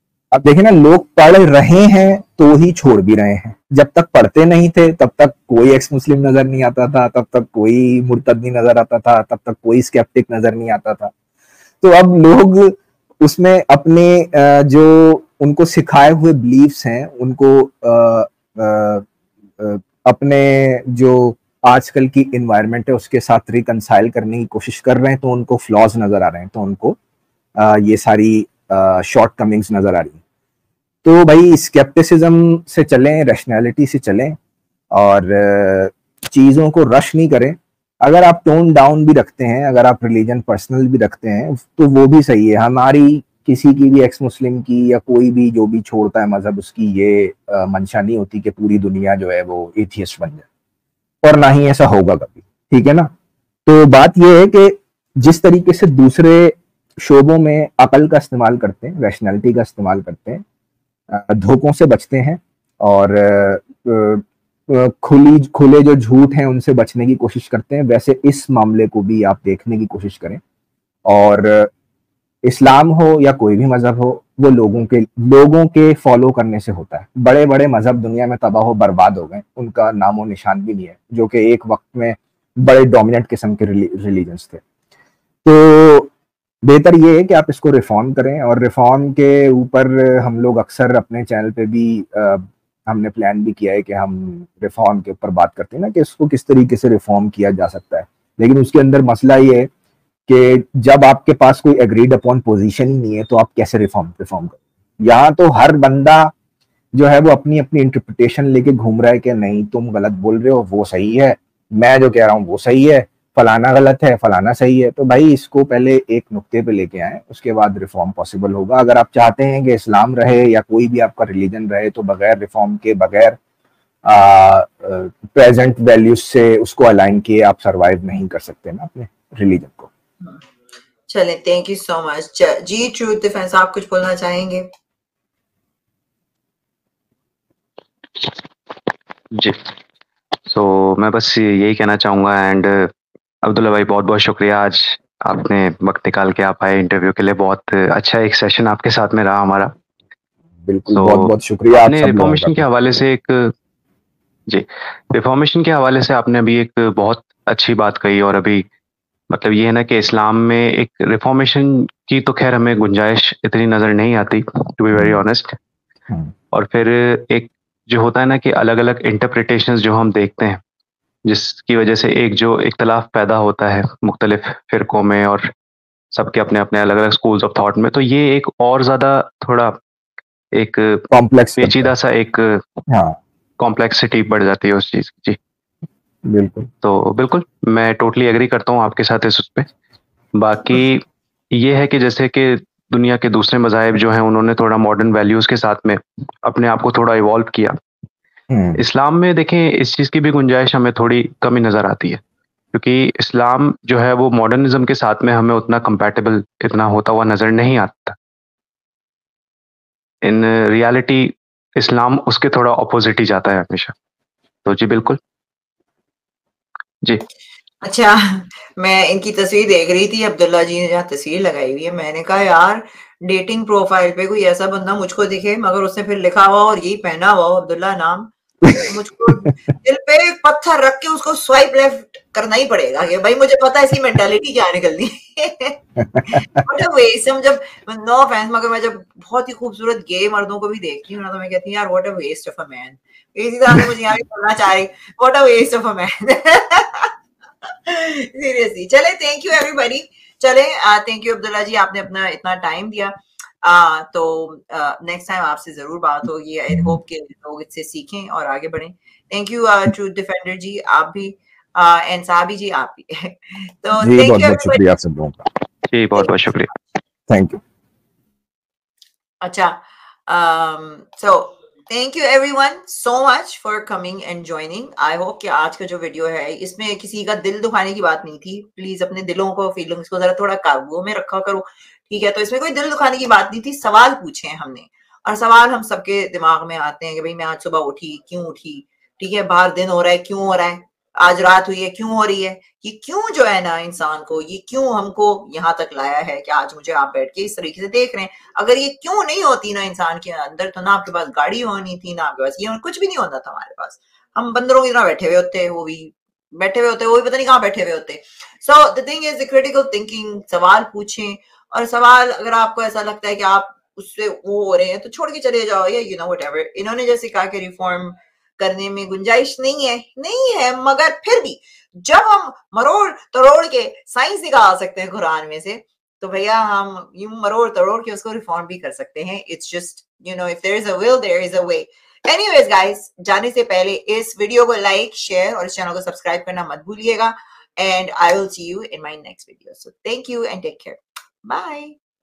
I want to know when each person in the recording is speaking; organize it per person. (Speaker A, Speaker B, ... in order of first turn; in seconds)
Speaker A: 0.3-11.1, 11.8-19.1, 19.6-27.0, 27.6-30.2, 31.0-34.4, 34.9-50.5, 51.2-53.1, 53.6-60.4, 61.1-70.4, 71.0-71.7, 72.4-84.6, 85.4-86.1, 86.6-99.7, 100.3-106.3, 106.9-123.4, 124.0-129.9, 150.7-152.6, 164.9-165.2, 181.1-181.9, 182.9-183.2, 186.2-186.7, 198.5-198.8, 228.6-229.4, 236.0-236.6, 256.7-257.0, 263.9-265.5, 267.3-267.6
Speaker B: 131.1-134.7, 217.8-247.1, 247.6-264.9, 269.4-341.9
Speaker C: 139.3-139.6, 140.4-142.9, 143.4-149.7, 150.9-153.5, 154.5-158.7, 159.3-165.5, 166.5-170.6, 171.2-175.5, 176.1-179.8, 180.5-181.0, 181.6-182.8, 183.6-185.4, 186.8-189.7, 190.4-197.8, 198.8-202.2, 202.7-208.2, 210.2-213.9, 214.6-215.2, 265.9-266.7